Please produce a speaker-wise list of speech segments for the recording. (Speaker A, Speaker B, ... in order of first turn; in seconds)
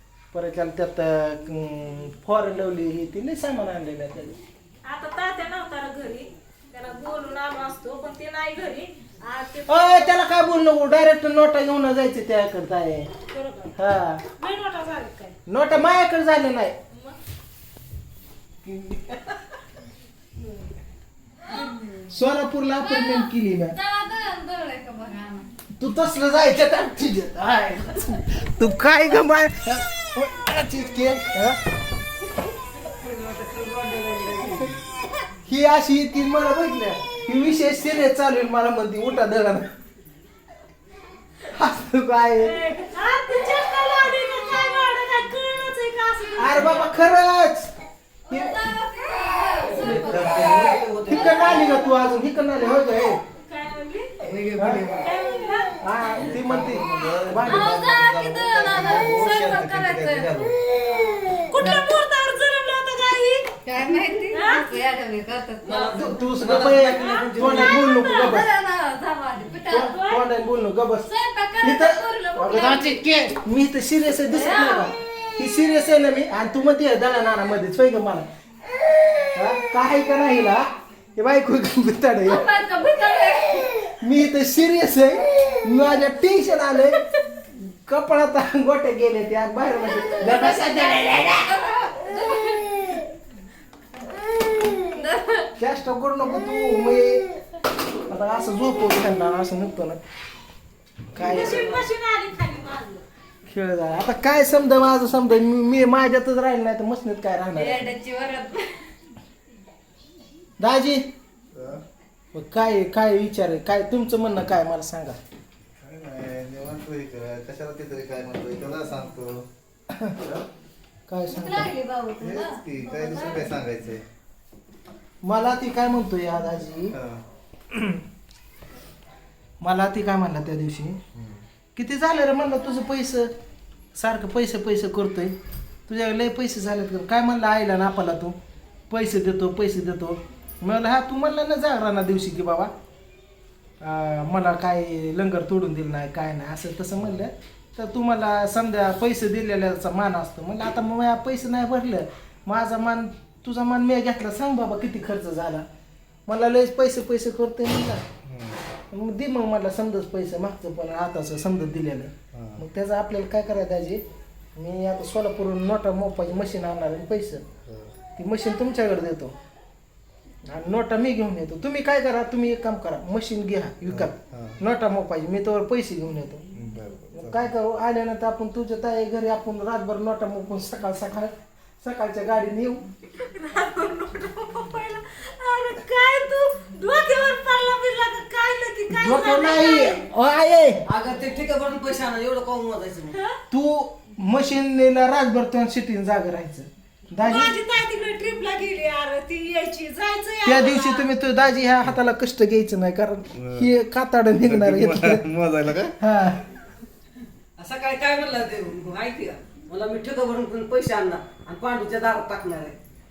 Speaker A: 0.3-4.4, 9.7-13.1, 13.8-14.2, 15.5-16.8, 22.1-23.8, 25.8-31.6, 35.5-39.7, 41.5-42.6, 46.4-47.7, 48.3-48.7, 51.1-53.2, 54.6-54.8, 55.8-57.8, 61.6-61.9, 65.9-68.5, 69.7-78.2, 79.3-82.5, 83.9-91.5, 95.6-97.3, 98.1-100.0, 101.1-101.9, 103.5-107.9, 110.6-111.0, 112.3-115.2, 121.1-121.7, 125.2-127.0, 127.7-128.0, 129.6-131.0, 131.8-133.3, 133.9-135.3, 135.9-138.3, 138.9-142.7, 143.8-155.7, 156.3-158.0, 158.9-164.0, 164.6-167.4, 168.2-169.3, 170.4-176.5, 177.1-181.3, 181.8-182.8, 188.9-190.8, 193.5-197.6, 200.4-205.2, 206.0-206.4
Speaker B: 4.8-10.2, 13.3-13.8, 14.3-15.3, 42.4-47.0, 53.4-54.2, 55.0-55.8, 61.5-63.6, 64.3-64.7, 66.9-67.2, 69.9-70.2, 101.2-103.0, 183.1-190.0, 193.1-193.4, 197.2-201.1
Speaker C: 22.8-25.5, 48.3-52.0, 54.6-55.0, 57.4-60.5, 63.6-66.2, 67.5-70.0, 71.0-73.0, 74.3-75.0, 82.3-83.9, 89.8-93.0, 94.8-95.5, 107.5-108.7, 121.3-123.6
Speaker D: 33.0-34.8, 49.7-51.7, 54.2-55.1, 65.6-67.8, 190.8-193.2, 207.6-212.8
Speaker E: 49.8-50.8, 56.2-60.5, 111.5-111.8, 115.8-119.5, 120.2-120.5, 122.2-124.0, 126.9-127.2, 131.1-131.4, 158.2-158.6, 162.3-162.6, 167.6-167.9, 173.9-174.6, 176.5-177.5, 203.4-203.7, 204.4-205.9